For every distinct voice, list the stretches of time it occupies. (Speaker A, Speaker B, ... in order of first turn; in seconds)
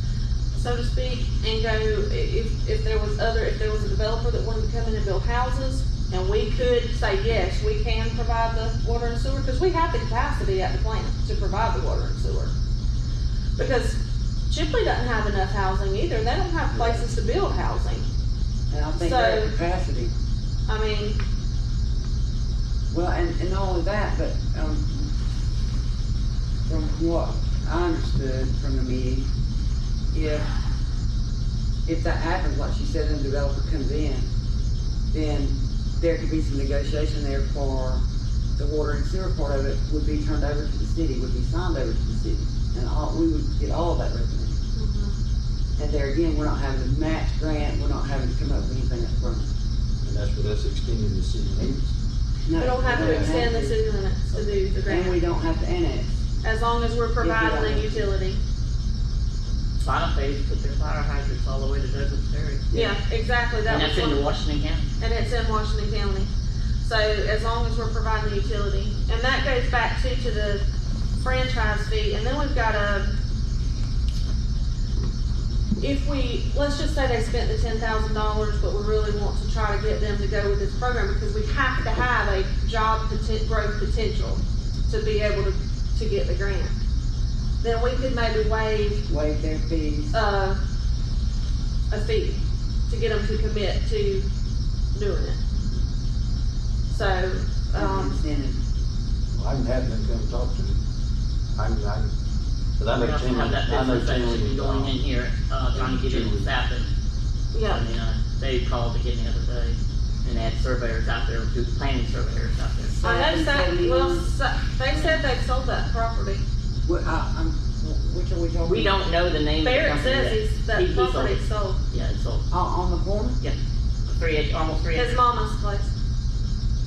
Speaker A: 0.6-12.5, 13.6-18.1, 19.0-19.5, 20.7-21.2, 44.8-45.2, 52.6-55.2, 56.4-58.4, 62.7-64.3, 65.0-66.3, 66.8-70.6, 71.2-73.1, 75.8-86.8, 87.6-89.1, 90.1-90.6, 91.9-94.3, 94.9-95.4, 96.9-98.2, 107.5-107.8, 113.0-116.4, 119.6-121.8, 124.9-125.9
Speaker B: 16.7-17.0, 18.7-20.1, 22.9-25.1, 26.7-29.3, 30.1-30.5, 31.9-34.3, 35.1-38.0, 38.6-44.6, 45.8-49.5, 52.5-53.8, 54.9-56.2, 57.2-58.1, 89.1-90.2, 97.7-98.6, 113.0-114.3, 114.9-115.2, 116.8-118.9, 122.5-123.4
Speaker C: 50.0-51.9, 52.8-53.5, 99.3-100.8, 101.5-102.1, 102.8-105.0, 105.7-106.5
Speaker D: 59.8-62.9, 63.6-64.8, 103.0-106.9, 107.6-113.0, 118.6-122.5, 123.4-125.2